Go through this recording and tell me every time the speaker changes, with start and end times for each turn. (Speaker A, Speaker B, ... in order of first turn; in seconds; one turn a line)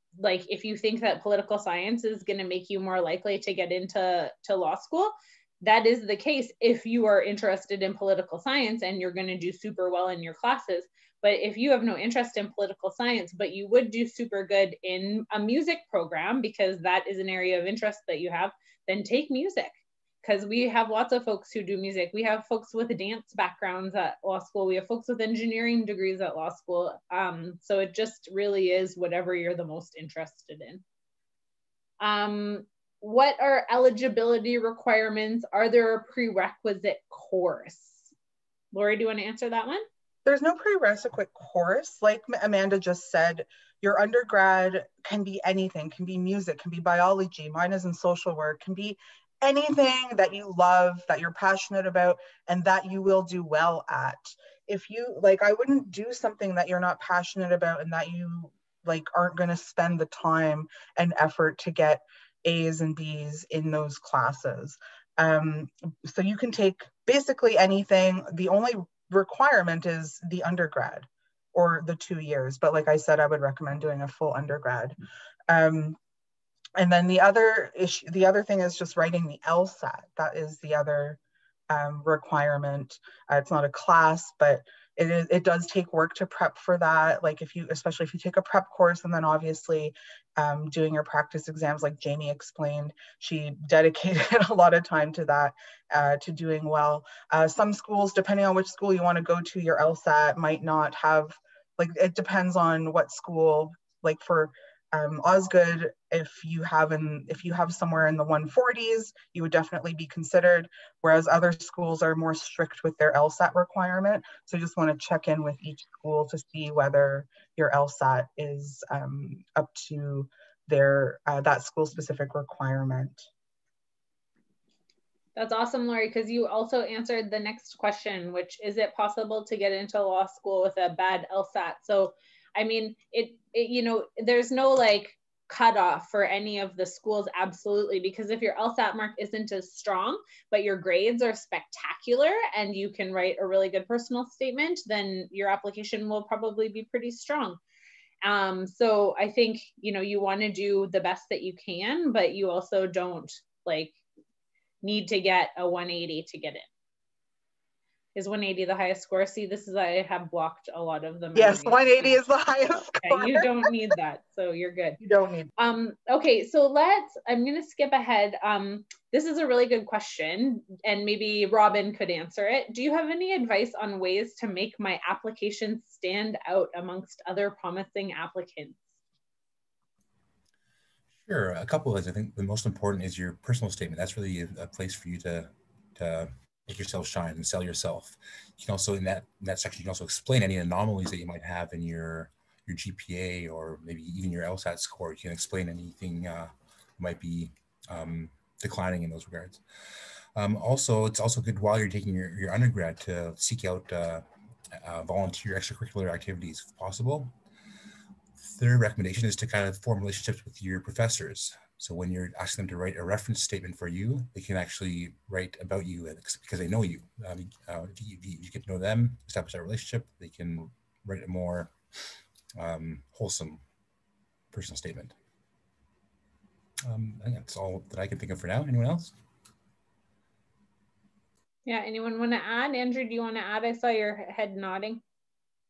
Speaker A: 0.2-30.8
Speaker A: 32.0-38.1
Speaker A: 38.7-39.8
Speaker B: 40.2-75.0
Speaker B: 75.5-76.0
Speaker B: 76.8-81.2
Speaker B: 81.7-123.2
Speaker A: 125.3-147.6
Speaker A: 148.2-153.9
Speaker A: 154.8-156.7
Speaker A: 158.1-162.2
Speaker B: 161.3-163.6
Speaker A: 163.0-165.0
Speaker B: 165.0-165.5
Speaker A: 165.6-178.9
Speaker C: 181.2-199.6
Speaker C: 200.3-204.2
Speaker C: 204.8-207.3
Speaker C: 208.4-221.7
Speaker C: 222.6-223.6
Speaker C: 224.5-225.1
Speaker C: 226.8-229.1
Speaker A: 231.7-235.0